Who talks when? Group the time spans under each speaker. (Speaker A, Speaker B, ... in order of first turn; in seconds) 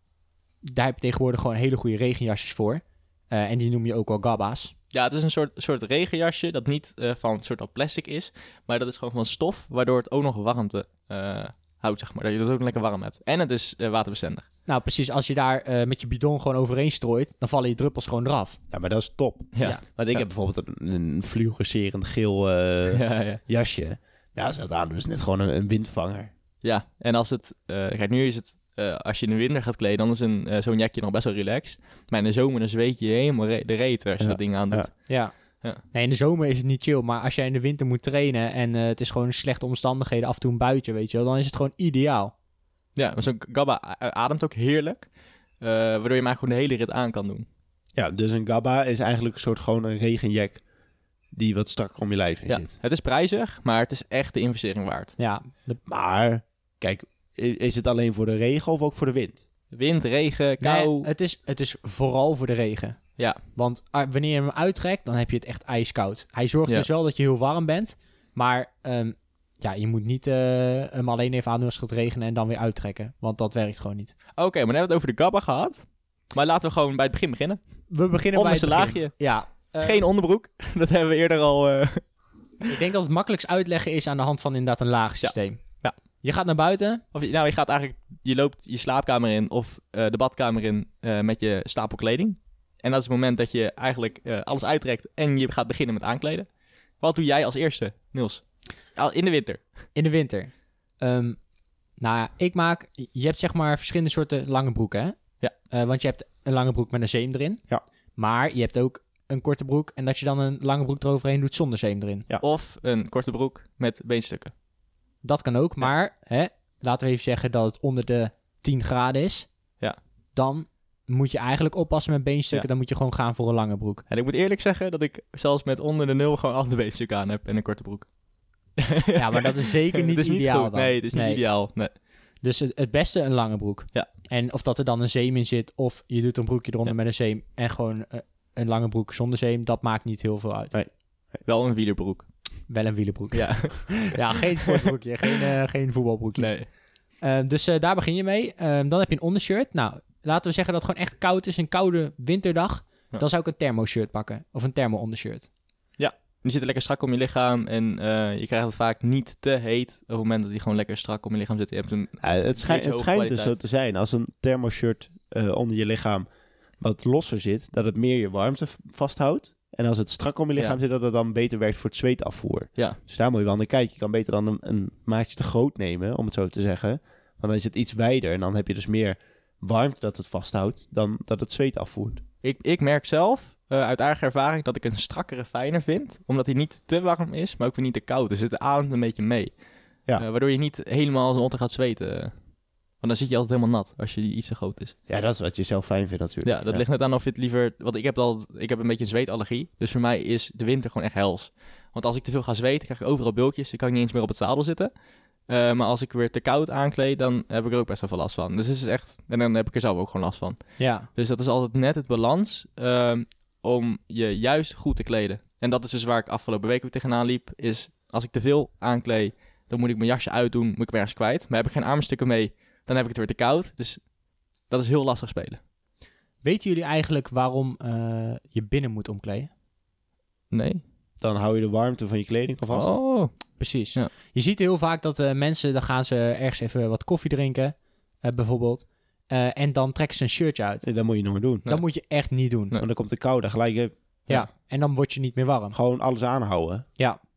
Speaker A: 0.6-4.7, 14.7-18.6, 35.1-35.3, 35.9-42.3, 55.2-55.8, 60.6-63.0, 63.5-74.1, 77.9-80.0, 82.7-85.6, 86.2-87.0, 99.9-101.4, 102.0-105.2, 105.7-107.6, 108.2-112.2, 115.2-119.5, 120.3-124.0, 129.1-131.4, 132.4-140.8, 142.7-146.6, 147.2-155.5, 210.8-211.1, 226.4-229.5, 233.6-240.8, 241.7-242.8, 244.3-245.8
Speaker B: 4.9-14.4, 19.5-20.2, 22.9-23.4, 26.6-35.1, 43.0-45.1, 45.6-47.5, 52.5-55.1, 59.7-61.1, 74.4-77.6, 78.3-79.2, 79.8-82.0, 85.2-85.9, 87.1-96.5, 97.0-98.4, 98.9-99.6, 112.4-114.5, 124.1-128.1, 128.8-131.9, 141.4-142.3, 143.3-144.8, 146.4-146.7, 156.0-163.5, 182.4-189.6, 190.2-192.3, 193.0-194.9, 196.4-204.9, 205.5-224.1, 224.7-225.6, 230.5-230.8, 232.7-234.1
Speaker C: 18.7-26.3, 34.2-34.9, 47.9-50.6, 51.3-52.7, 55.9-59.4, 162.2-166.3, 166.8-182.2, 195.1-196.8, 231.2-232.9, 240.8-241.7, 242.8-243.9, 245.7-246.8